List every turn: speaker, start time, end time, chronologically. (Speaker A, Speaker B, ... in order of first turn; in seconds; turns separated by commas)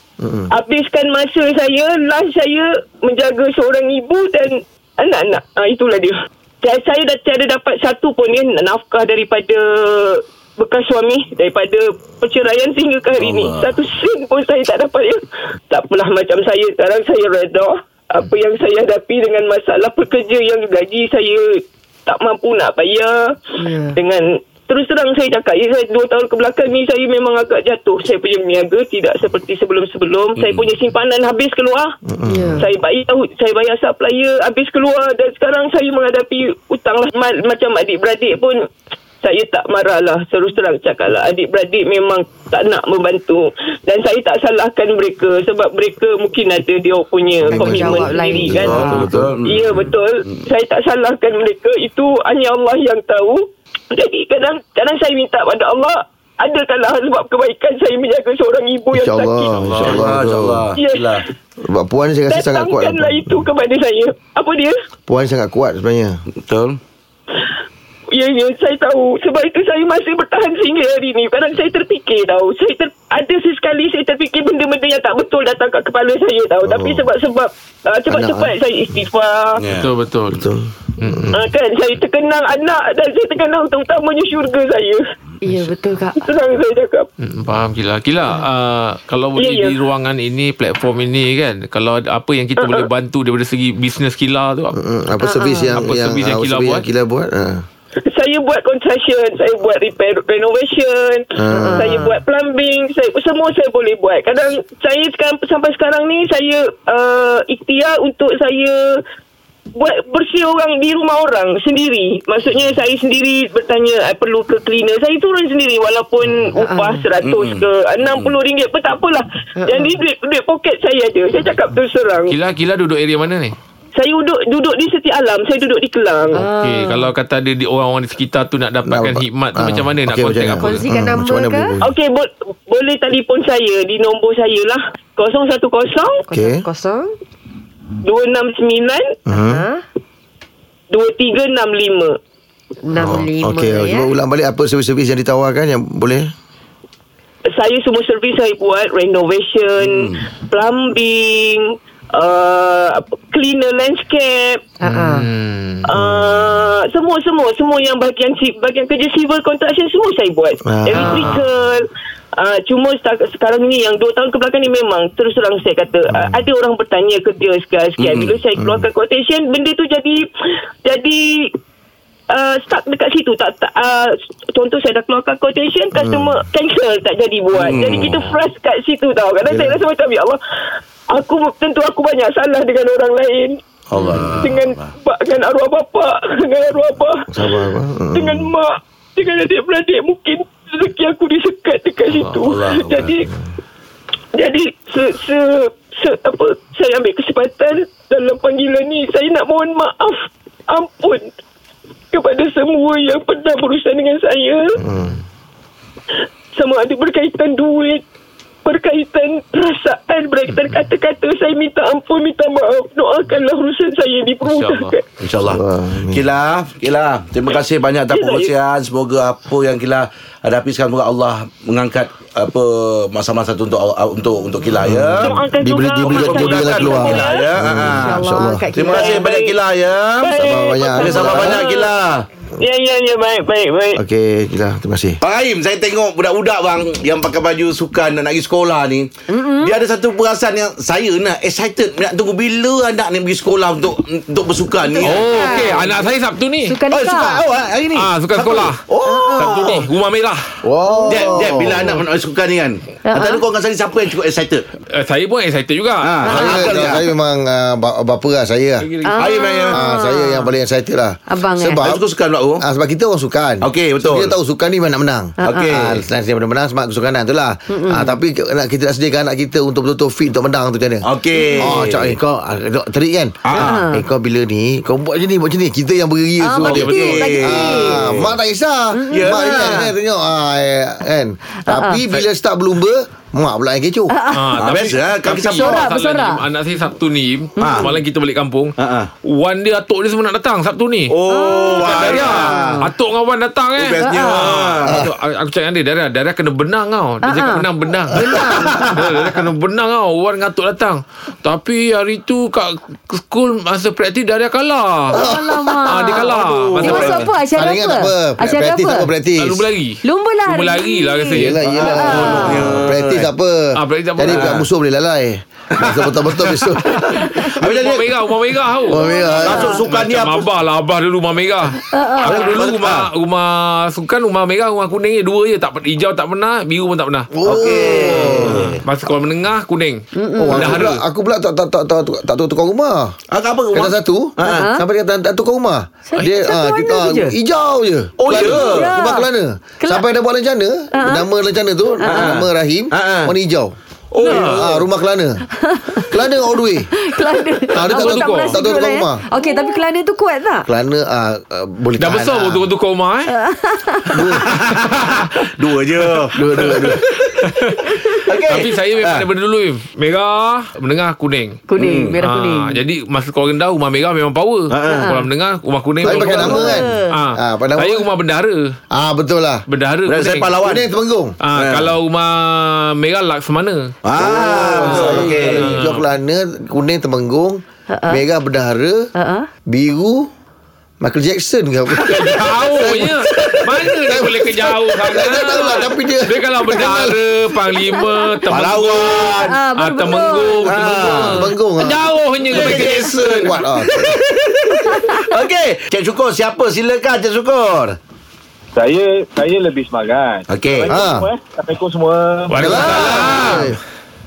Speaker A: 0.2-0.5, Speaker B: 0.5-32.0, Speaker C: 13.2-13.7, Speaker D: 23.6-24.0, Speaker C: 30.4-30.7, Speaker A: 32.1-32.6, Speaker D: 32.3-32.7, Speaker B: 32.6-38.7, Speaker B: 39.2-59.6, Speaker D: 47.5-49.1, Speaker A: 47.5-49.3, Speaker C: 48.6-50.4, Speaker A: 58.9-60.7, Speaker C: 59.6-61.2, Speaker B: 60.8-61.2, Speaker A: 61.6-63.5, Speaker B: 62.3-64.8, Speaker A: 65.1-66.2, Speaker C: 66.3-66.8, Speaker B: 68.1-79.6, Speaker A: 76.7-77.0, Speaker A: 78.1-78.5, Speaker C: 79.6-79.9, Speaker E: 79.7-80.5, Speaker A: 80.4-81.4, Speaker E: 81.0-81.3, Speaker B: 81.3-85.0, Speaker D: 85.4-86.3, Speaker B: 86.2-87.1, Speaker E: 87.2-94.8, Speaker B: 89.4-89.7, Speaker B: 92.6-92.9, Speaker A: 94.8-97.7, Speaker D: 95.2-95.8, Speaker E: 95.8-96.8, Speaker B: 98.0-109.0, Speaker A: 101.3-102.0, Speaker D: 101.5-102.2, Speaker B: 109.8-122.3, Speaker D: 116.5-117.1, Speaker C: 117.2-118.3, Speaker D: 119.6-120.0, Speaker E: 122.3-123.5, Speaker B: 124.0-126.4, Speaker D: 126.3-127.1, Speaker E: 126.4-130.9, Speaker A: 128.9-131.9, Speaker D: 130.6-131.8, Speaker B: 131.8-136.2, Speaker D: 136.3-137.1, Speaker A: 136.3-136.6, Speaker B: 138.0-139.2, Speaker A: 139.3-139.7, Speaker D: 139.3-139.8, Speaker B: 140.9-142.2, Speaker D: 142.8-144.1, Speaker A: 143.0-146.3, Speaker B: 147.5-154.7, Speaker C: 149.8-150.2, Speaker D: 154.8-155.3, Speaker E: 154.8-155.9, Speaker B: 155.9-170.2, Speaker A: 160.7-161.4, Speaker D: 161.0-161.3, Speaker E: 161.0-161.4, Speaker A: 166.1-166.4, Speaker C: 168.0-168.4, Speaker A: 168.6-168.9, Speaker B: 170.8-171.5, Speaker B: 172.3-180.4, Speaker A: 175.9-176.4, Speaker C: 177.5-178.4, Speaker A: 179.5-179.8, Speaker B: 181.1-183.6, Speaker C: 183.9-184.9, Speaker B: 184.1-187.6, Speaker A: 187.3-188.5, Speaker B: 188.1-193.3, Speaker C: 192.2-193.2, Speaker B: 194.3-201.3, Speaker B: 202.1-204.8, Speaker A: 204.8-205.2, Speaker B: 206.6-208.0, Speaker B: 208.7-215.0, Speaker E: 214.4-215.0, Speaker C: 215.2-225.3, Speaker A: 215.4-216.2, Speaker B: 218.1-218.5, Speaker A: 224.8-228.7, Speaker B: 225.2-227.5, Speaker C: 226.0-230.3, Speaker D: 227.9-229.3, Speaker B: 228.8-229.5, Speaker B: 230.2-231.9, Speaker A: 230.3-231.6, Speaker C: 230.9-232.2, Speaker B: 232.6-234.0, Speaker A: 233.9-235.2, Speaker C: 235.2-245.8, Speaker D: 239.3-239.8, Speaker D: 244.9-246.0, Speaker E: 245.0-246.8, Speaker D: 246.6-247.4, Speaker C: 246.9-249.9, Speaker E: 247.9-248.8, Speaker D: 249.0-249.8, Speaker E: 249.4-250.6, Speaker A: 250.6-252.0, Speaker D: 250.9-251.9, Speaker C: 251.1-254.7, Speaker D: 253.1-253.5, Speaker E: 254.9-256.1, Speaker C: 256.0-257.0, Speaker D: 256.2-256.9, Speaker A: 256.3-258.9, Speaker E: 258.8-259.3, Speaker D: 259.0-260.5, Speaker C: 259.2-259.8, Speaker A: 259.7-262.0, Speaker D: 261.3-261.9, Speaker C: 261.6-262.6, Speaker A: 262.6-271.0, Speaker C: 263.6-264.3, Speaker D: 265.4-265.7, Speaker C: 265.4-266.0, Speaker D: 267.7-268.2, Speaker C: 271.0-272.2, Speaker D: 271.3-271.6, Speaker A: 271.6-284.1, Speaker C: 273.4-273.9, Speaker D: 273.5-274.1, Speaker D: 276.4-278.1, Speaker C: 276.6-278.4, Speaker D: 278.9-279.9, Speaker C: 279.1-279.9, Speaker D: 281.6-282.2, Speaker D: 284.1-284.6, Speaker E: 284.3-291.1, Speaker C: 284.6-285.9, Speaker D: 285.3-286.4, Speaker D: 287.6-287.9, Speaker C: 287.6-287.9, Speaker C: 288.8-289.1, Speaker C: 291.1-292.5, Speaker D: 291.3-292.9, Speaker E: 291.7-305.2, Speaker C: 293.8-295.0, Speaker D: 294.0-294.5, Speaker A: 294.9-295.1, Speaker D: 297.2-298.8, Speaker C: 298.5-299.3, Speaker D: 305.1-309.1, Speaker A: 305.2-306.0, Speaker E: 305.9-307.3, Speaker C: 306.3-307.3, Speaker A: 307.5-309.7, Speaker E: 309.4-312.5, Speaker D: 310.0-312.7, Speaker A: 311.4-316.9, Speaker C: 311.7-313.3, Speaker E: 313.8-314.6, Speaker C: 314.3-314.6, Speaker C: 315.7-316.0, Speaker E: 316.8-327.3, Speaker C: 317.2-318.2, Speaker A: 318.9-319.7, Speaker D: 318.9-319.9, Speaker C: 319.4-320.5, Speaker D: 321.9-322.6, Speaker C: 322.2-323.1, Speaker A: 327.4-328.8, Speaker C: 327.4-328.8, Speaker E: 328.0-330.0, Speaker D: 330.1-330.7, Speaker A: 330.4-333.2, Speaker E: 330.6-331.0, Speaker C: 330.6-330.9, Speaker C: 333.3-334.7, Speaker A: 333.7-343.8, Speaker D: 334.4-334.8, Speaker D: 336.1-337.4, Speaker C: 338.2-338.9, Speaker D: 338.2-339.3, Speaker D: 339.8-340.1, Speaker D: 340.9-341.3, Speaker D: 342.0-342.4, Speaker C: 342.0-343.3, Speaker C: 344.1-344.6, Speaker D: 344.2-344.5, Speaker E: 344.2-344.6, Speaker A: 344.3-345.4, Speaker D: 345.6-350.7, Speaker A: 346.1-346.9, Speaker A: 347.7-349.2, Speaker E: 347.8-348.6, Speaker A: 350.7-352.7, Speaker E: 352.0-353.3, Speaker D: 353.3-354.3, Speaker A: 354.1-354.5, Speaker C: 354.4-357.7, Speaker A: 356.3-357.0, Speaker C: 358.3-359.3, Speaker E: 358.5-361.6, Speaker D: 361.7-362.8, Speaker C: 361.8-362.2, Speaker E: 362.2-368.6, Speaker C: 364.7-365.1, Speaker D: 364.9-365.2, Speaker D: 366.0-367.2, Speaker A: 366.0-368.1, Speaker A: 368.9-369.6, Speaker E: 369.7-370.6, Speaker C: 370.1-370.8, Speaker A: 370.6-371.4, Speaker E: 371.4-374.0, Speaker C: 371.6-372.0, Speaker C: 374.0-375.9, Speaker A: 374.2-379.1, Speaker D: 374.2-374.9, Speaker E: 374.6-376.0, Speaker D: 377.9-378.2, Speaker D: 379.1-379.5, Speaker A: 379.7-380.3, Speaker A: 381.0-387.2, Speaker E: 382.0-393.6, Speaker D: 387.8-388.5, Speaker C: 388.5-389.6, Speaker D: 389.0-391.1, Speaker C: 390.7-391.4, Speaker A: 391.1-394.2, Speaker C: 392.5-398.0, Speaker D: 394.7-395.4, Speaker F: 398.8-403.2, Speaker C: 400.5-401.0, Speaker A: 400.9-401.3, Speaker E: 402.5-403.8, Speaker A: 402.6-403.8, Speaker C: 402.7-403.6